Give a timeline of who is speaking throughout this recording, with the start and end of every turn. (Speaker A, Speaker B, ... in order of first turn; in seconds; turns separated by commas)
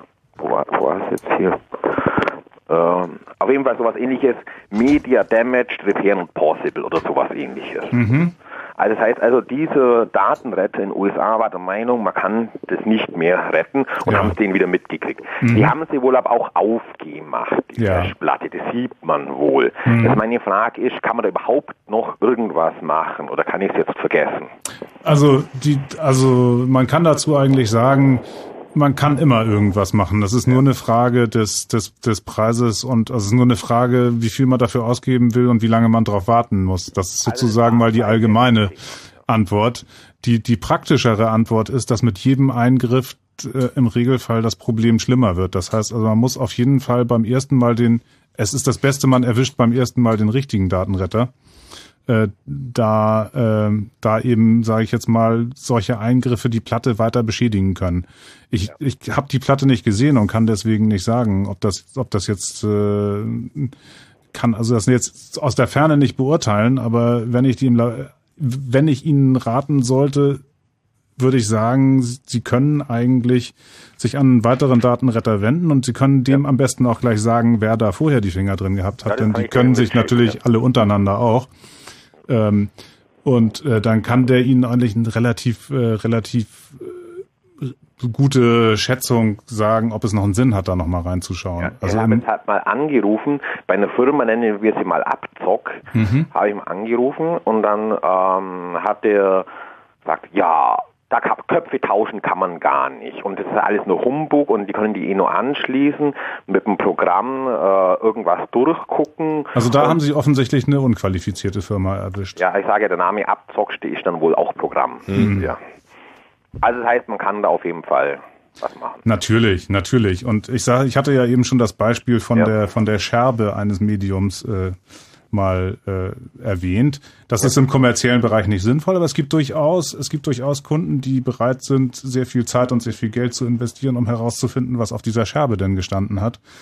Speaker A: 0.4-8.0, Speaker B: 7.9-8.3, Speaker A: 8.8-24.5, Speaker B: 14.1-14.3, Speaker B: 15.4-15.7, Speaker B: 17.8-18.1, Speaker B: 19.8-20.2, Speaker B: 25.0-51.3, Speaker A: 37.2-39.0, Speaker B: 52.1-63.7, Speaker B: 64.3-70.4, Speaker B: 71.2-81.5, Speaker A: 79.0-80.4, Speaker B: 82.3-82.7, Speaker B: 83.2-92.2, Speaker A: 91.6-99.5, Speaker B: 95.9-96.3, Speaker A: 100.0-110.0, Speaker B: 109.5-112.4, Speaker A: 112.4-115.6, Speaker B: 115.1-115.5, Speaker A: 116.6-119.0, Speaker B: 119.0-124.8, Speaker B: 125.3-136.4